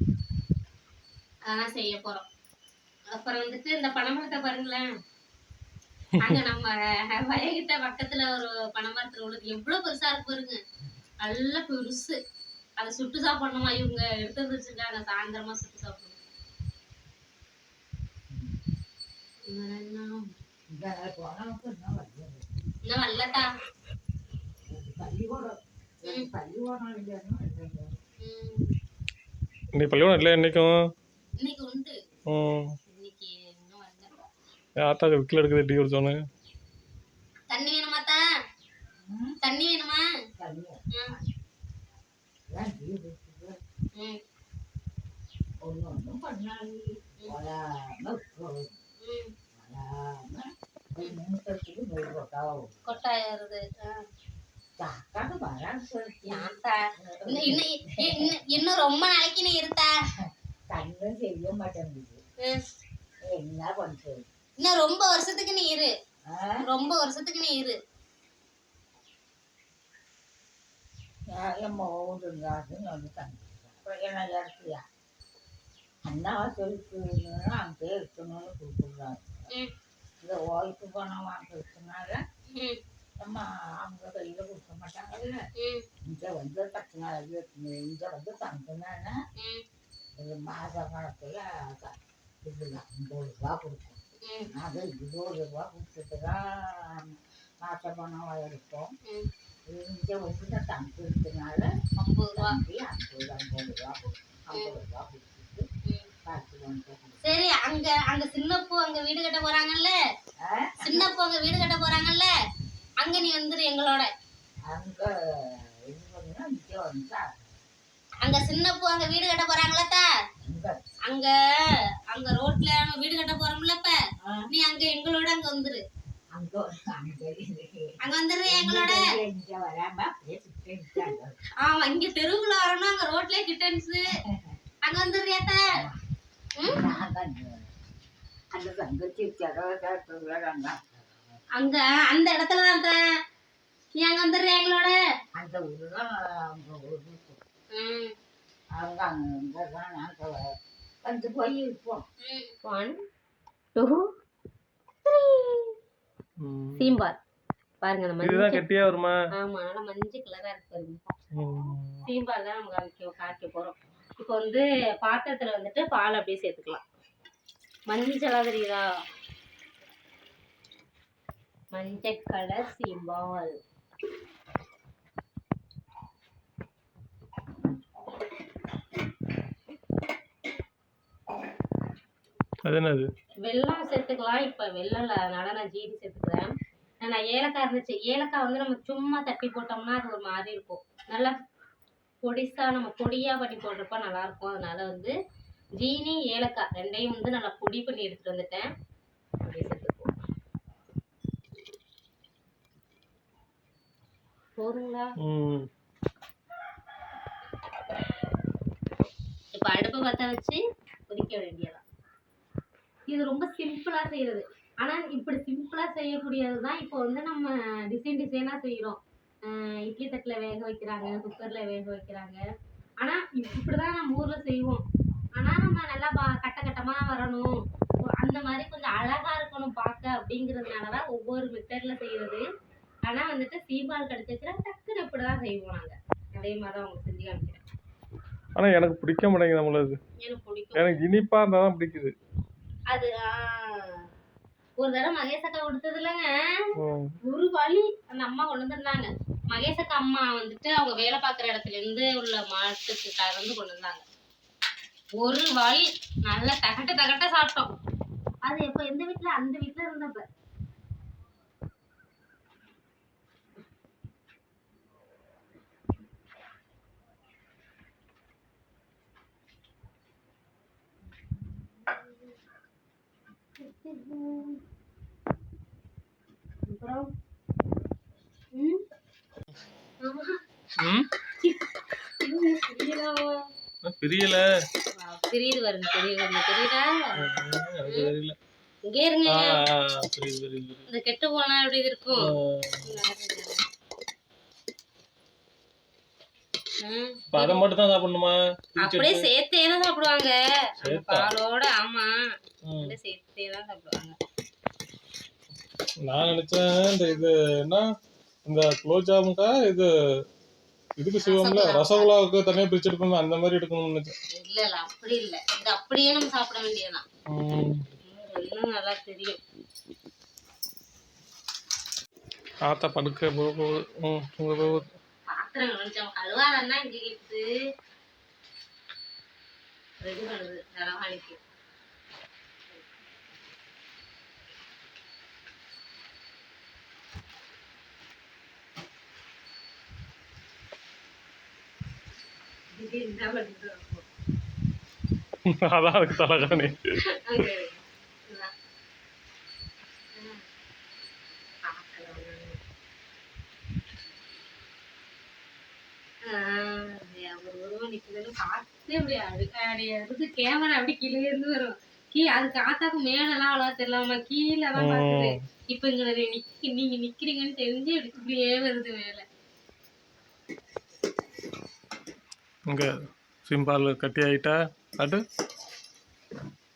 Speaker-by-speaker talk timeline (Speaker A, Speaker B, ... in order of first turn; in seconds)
Speaker A: 1.5-2.2, 3.1-4.9, 6.2-10.6, 11.2-12.2, 12.8-16.2, 19.5-20.3, 22.9-23.5, 28.2-28.7, 31.4-32.0, 32.9-34.3, 37.5-38.2, 39.4-40.0, 49.0-49.3, 52.9-54.0, 56.3-60.0, 64.6-65.9, 66.6-67.8, 82.5-82.8, 85.6-85.9, 89.4-89.6, 94.2-94.5, 102.0-102.5, 107.2-110.0, 110.8-112.3, 113.0-114.1, 118.2-120.0, 121.1-121.3, 122.1-124.0, 124.5-125.8, 128.0-129.0, 131.0-134.1, 134.8-135.7, 136.6-136.8, 141.6-143.0, 144.0-145.0, 147.7-148.1, 152.2-153.0, 153.8-154.1, 155.1-155.7, 156.8-157.2, 157.8-158.6, 159.3-161.0, 162.1-166.8, 167.9-168.9, 171.7-173.6, 183.4-191.3, 192.2-195.1, 195.8-198.7, 199.4-200.2, 204.6-205.1, 209.5-211.8, 213.1-222.4, 223.0-224.8, 225.4-227.6, 228.1-232.4, 233.1-237.6, 240.2-240.9, 242.9-244.1, 244.8-246.3, 247.2-254.0, 255.2-257.7, 258.4-260.2, 271.8-272.2, 273.6-274.6, 276.7-277.1, 278.5-278.8, 280.0-280.4, 282.2-283.5, 285.0-287.1, 287.9-288.1, 288.9-289.6, 290.9-292.3, 292.8-293.6, 296.8-297.7, 298.8-302.1, 302.8-304.2, 311.2-312.1, 314.4-317.0, 318.0-319.4, 325.3-327.5, 330.0-331.4, 342.7-344.1, 347.2-348.5, 350.1-350.4, 351.6-352.6, 356.3-369.2
Speaker B: 6.1-6.4, 29.8-30.7, 32.3-32.7, 34.8-36.2, 156.4-156.9, 158.2-159.2, 161.3-162.0, 182.7-183.1, 205.2-205.7, 238.6-240.0, 240.8-242.1, 246.8-247.1, 280.8-281.1, 283.9-284.4, 287.2-288.4, 289.3-290.9, 292.1-292.9, 297.3-299.3, 300.8-301.3, 302.7-302.9, 306.1-307.8, 308.5-309.9, 311.0-314.1, 317.3-317.8, 322.7-324.9, 345.5-346.8, 364.8-365.4, 373.5-375.2
Speaker C: 18.3-18.6, 20.7-22.5, 24.7-27.9, 39.0-39.4, 40.4-41.4, 42.5-43.6, 45.6-48.8, 49.5-52.9, 54.8-58.4, 60.7-62.2, 63.3-64.2, 66.3-66.6, 71.3-74.8, 76.0-79.5, 80.2-82.2, 83.2-85.4, 86.0-89.2, 90.2-98.9, 99.7-105.7, 106.2-107.2, 110.4-111.1, 114.7-117.5, 120.4-120.8, 124.2-124.5, 126.3-128.0, 128.5-131.4, 134.3-134.6, 135.7-136.0, 136.7-137.7, 138.5-141.4, 145.4-147.4, 148.8-150.5, 151.0-152.0